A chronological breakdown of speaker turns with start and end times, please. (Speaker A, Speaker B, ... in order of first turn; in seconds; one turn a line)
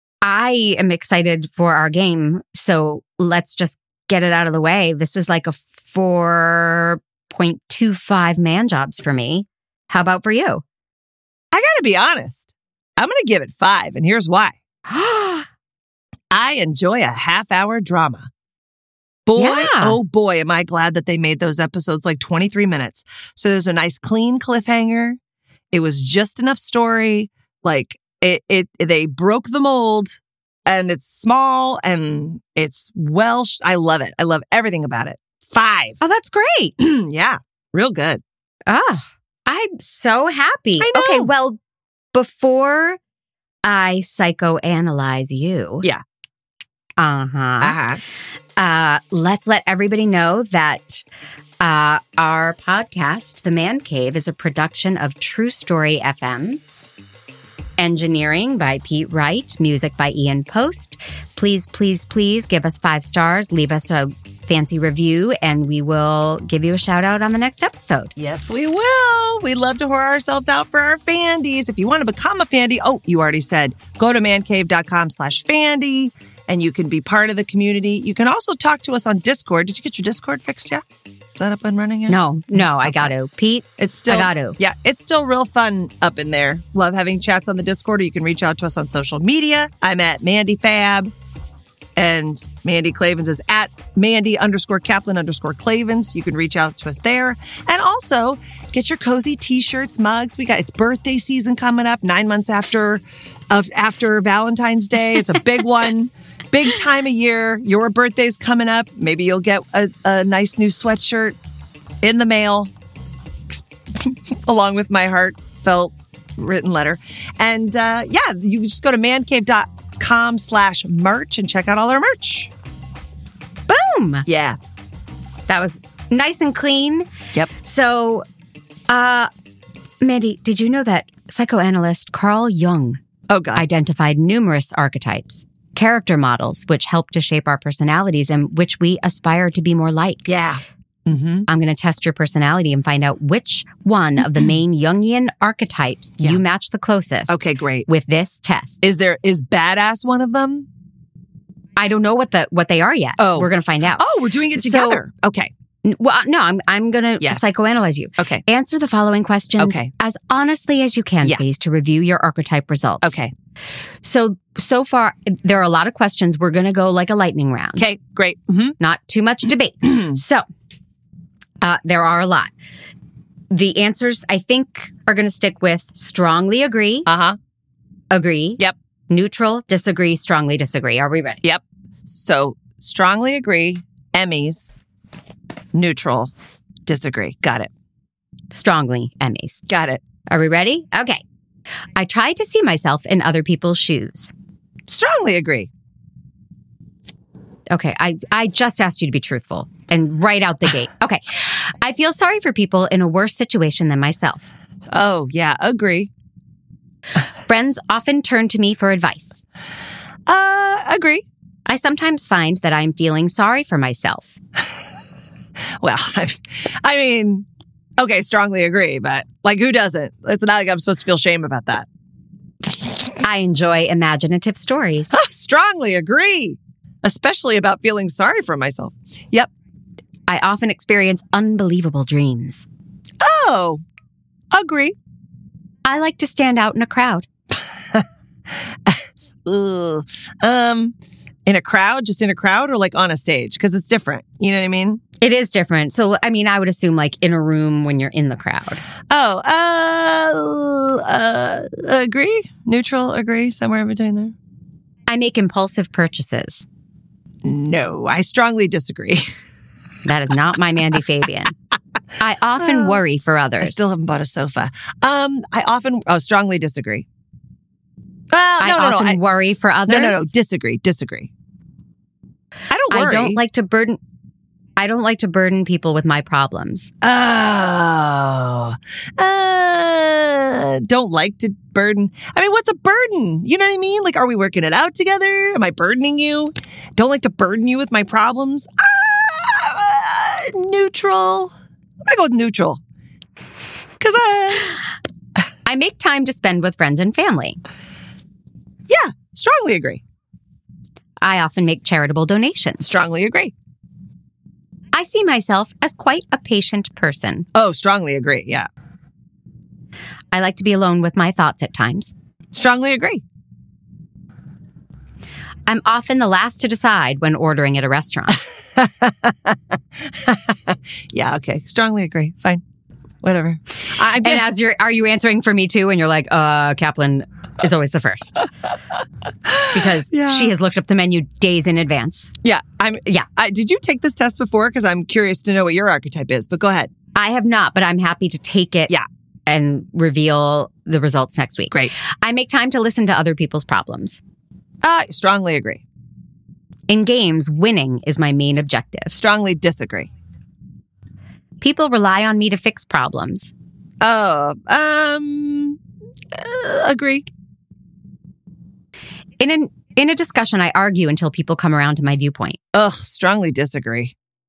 Speaker A: 0.2-10.6
Speaker B: 11.5-14.6
Speaker A: 14.9-15.4
Speaker B: 16.3-18.3
Speaker B: 19.2-25.2
Speaker A: 19.4-20.0
Speaker B: 25.7-36.0
Speaker A: 36.0-36.8
Speaker B: 36.8-38.2
Speaker A: 38.7-41.6
Speaker B: 40.8-41.3
Speaker A: 42.1-43.0
Speaker A: 43.6-45.8
Speaker A: 47.0-47.8
Speaker B: 47.6-48.0
Speaker A: 48.6-51.0
Speaker A: 51.6-56.6
Speaker A: 57.8-68.1
Speaker B: 68.2-80.8
Speaker B: 81.3-83.1
Speaker A: 82.1-84.6
Speaker B: 83.8-91.1
Speaker B: 92.0-111.3
Speaker B: 112.0-112.7
Speaker B: 113.5-122.5
Speaker A: 123.7-124.2
Speaker B: 124.2-124.6
Speaker A: 125.5-128.2
Speaker A: 128.9-129.3
Speaker A: 130.0-133.0
Speaker B: 133.3-133.6
Speaker A: 133.6-140.2
Speaker B: 140.2-141.4
Speaker A: 141.5-148.8
Speaker B: 147.3-147.8
Speaker B: 148.8-150.7
Speaker A: 151.8-154.0
Speaker B: 153.2-155.5
Speaker A: 154.6-155.0
Speaker A: 155.8-163.2
Speaker B: 157.2-157.6
Speaker B: 158.2-158.4
Speaker B: 159.6-159.9
Speaker B: 161.2-161.7
Speaker B: 163.0-163.3
Speaker A: 164.0-167.8
Speaker B: 167.8-168.8
Speaker A: 168.8-170.4
Speaker B: 169.9-170.1
Speaker A: 171.6-172.5
Speaker A: 173.5-177.1
Speaker B: 177.1-177.4
Speaker A: 178.1-181.4
Speaker B: 181.4-184.7
Speaker B: 185.7-186.3
Speaker B: 186.8-187.7
Speaker A: 188.5-189.6
Speaker B: 189.7-190.0
Speaker A: 190.3-191.2
Speaker A: 191.9-194.3
Speaker B: 194.9-195.7
Speaker A: 197.7-204.5
Speaker B: 204.9-206.1
Speaker A: 207.5-209.4
Speaker B: 210.3-211.2
Speaker A: 211.7-214.3
Speaker B: 215.8-217.4
Speaker B: 218.0-221.8
Speaker A: 223.2-225.1
Speaker B: 225.1-229.5
Speaker A: 230.3-232.7
Speaker B: 233.2-233.8
Speaker B: 234.5-234.9
Speaker A: 235.8-237.3
Speaker B: 238.8-240.9
Speaker B: 241.4-245.0
Speaker A: 245.2-248.8
Speaker B: 249.1-254.3
Speaker A: 255.1-256.6
Speaker B: 257.4-259.2
Speaker A: 260.0-261.5
Speaker A: 262.2-263.8
Speaker B: 262.6-263.0
Speaker B: 263.6-267.1
Speaker B: 268.3-269.2
Speaker A: 268.6-270.3
Speaker B: 269.9-271.3
Speaker B: 272.7-273.4
Speaker A: 272.9-274.0
Speaker A: 274.8-276.9
Speaker B: 277.0-291.5
Speaker B: 292.0-292.8
Speaker B: 294.0-294.8
Speaker A: 295.6-297.6
Speaker B: 298.9-300.0
Speaker A: 301.2-302.8
Speaker B: 302.8-303.5
Speaker A: 304.9-307.5
Speaker B: 307.5-308.7
Speaker A: 310.3-312.1
Speaker B: 312.5-313.2
Speaker A: 315.7-318.4
Speaker B: 318.8-319.6
Speaker B: 320.1-322.6
Speaker B: 323.2-324.4
Speaker A: 324.2-328.4
Speaker B: 329.5-330.5
Speaker A: 329.7-332.3
Speaker B: 332.4-336.9
Speaker A: 337.1-338.9
Speaker A: 339.5-344.2
Speaker B: 341.7-342.0
Speaker B: 344.8-345.8
Speaker A: 346.9-349.1
Speaker B: 349.1-350.1
Speaker A: 351.6-353.5
Speaker B: 354.0-355.8
Speaker B: 356.3-357.2
Speaker A: 359.4-362.6
Speaker B: 362.7-364.1